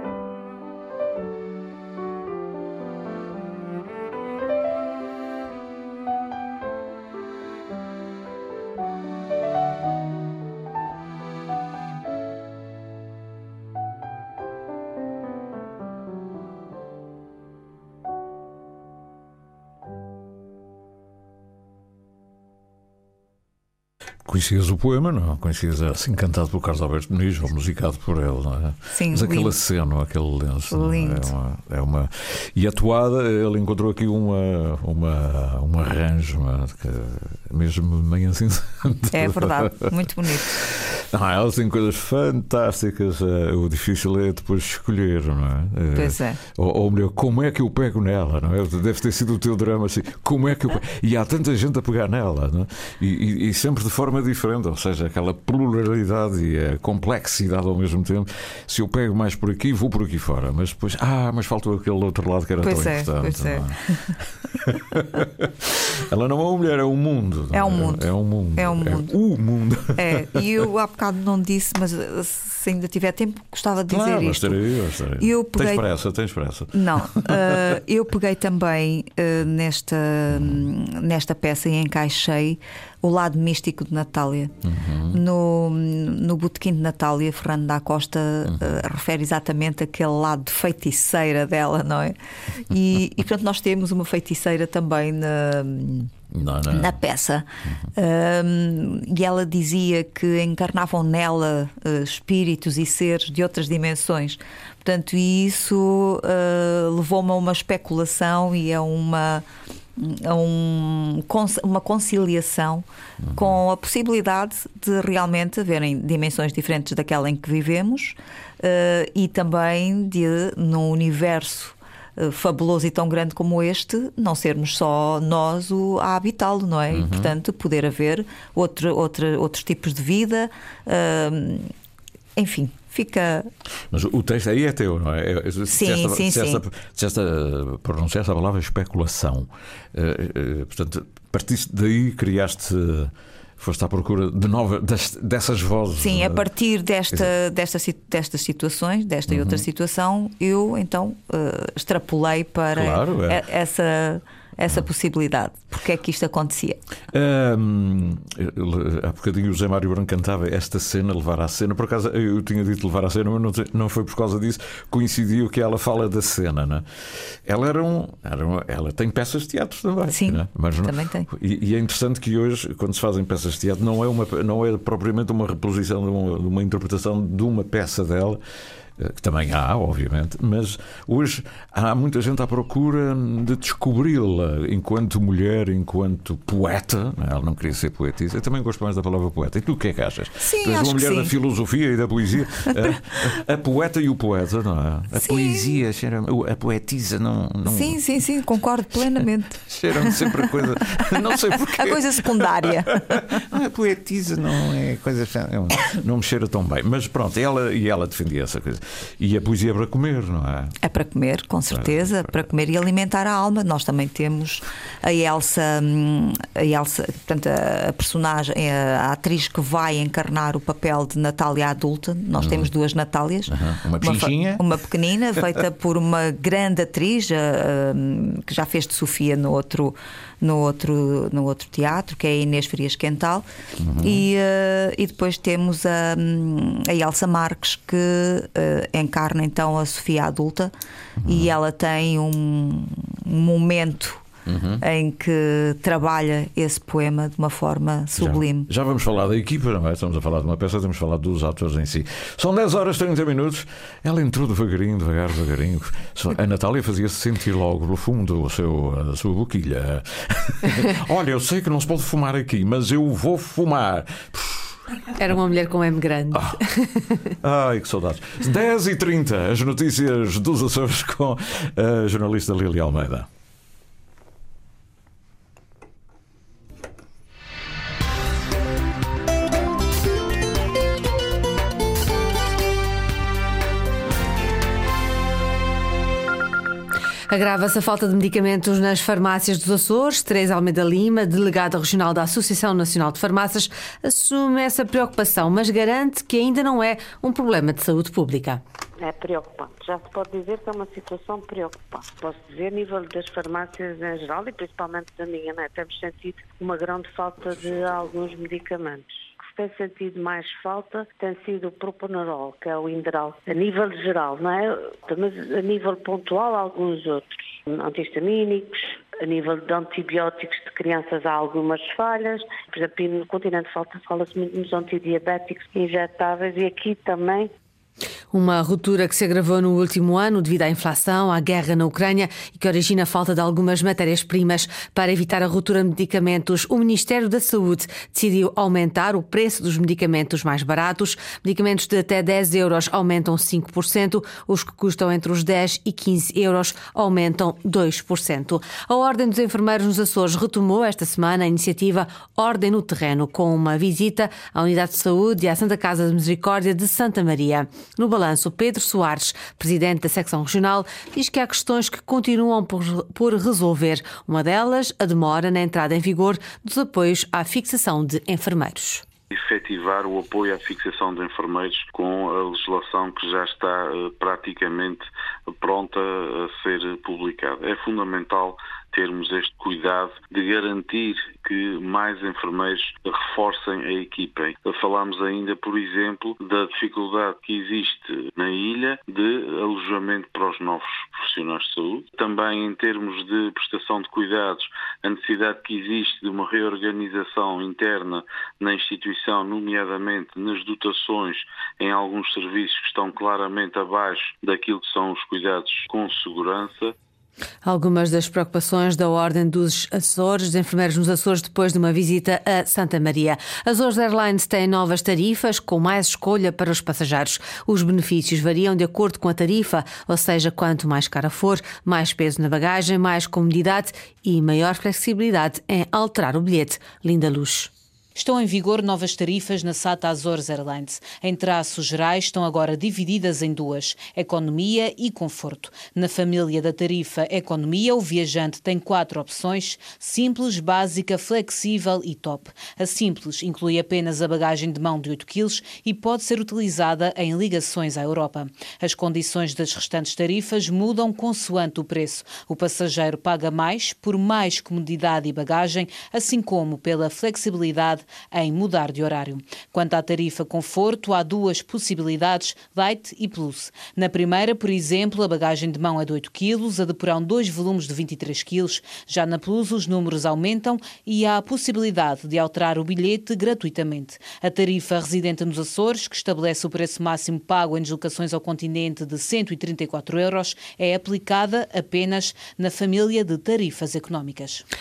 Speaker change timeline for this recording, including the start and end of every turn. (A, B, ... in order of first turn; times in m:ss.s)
0:24.2-0:39.9 A
0:28.9-0:29.5 B
0:30.7-0:31.3 B
0:39.1-0:40.6 B
0:40.5-1:10.4 A
0:45.9-0:46.4 B
1:02.6-1:04.1 B
1:07.5-1:09.1 B
1:09.9-1:14.6 B
1:13.9-1:17.7 A
1:15.2-1:15.9 B
1:16.7-1:24.5 B
1:20.3-1:20.6 A
1:24.6-1:25.2 A
1:25.1-1:32.2 B
1:28.5-1:28.8 A
1:32.7-1:36.1 B
1:36.3-1:37.0 A
1:36.7-1:49.4 B
1:50.0-2:11.7 B
1:53.2-1:53.6 A
2:06.9-2:07.4 A
2:12.4-2:13.5 B
2:13.9-2:26.4 A
2:15.7-2:16.6 B
2:26.0-2:36.8 B
2:29.3-2:29.6 A
2:32.7-2:33.4 A
2:37.1-2:58.4 A
2:50.1-2:51.3 B
2:59.0-3:18.0 A
3:10.4-3:11.3 B
3:15.2-3:15.7 B
3:17.6-3:23.2 B
3:19.6-3:30.8 A
3:30.8-3:53.4 B
3:31.7-3:32.4 A
3:42.4-3:42.7 A
3:43.5-3:44.6 A
3:53.8-3:54.2 A
3:54.0-4:00.7 B
4:01.2-4:01.6 A
4:01.3-4:04.2 B
4:04.4-4:04.8 A
4:04.8-4:08.7 B
4:08.2-4:24.8 A
4:25.2-4:27.1 C
4:26.3-4:26.6 A
4:27.4-4:33.3 A
4:47.3-4:58.6 C
4:59.0-5:27.5 D
5:28.3-6:09.0 C
6:09.3-6:46.9 E
6:47.6-7:07.7 C
7:08.2-8:04.6 F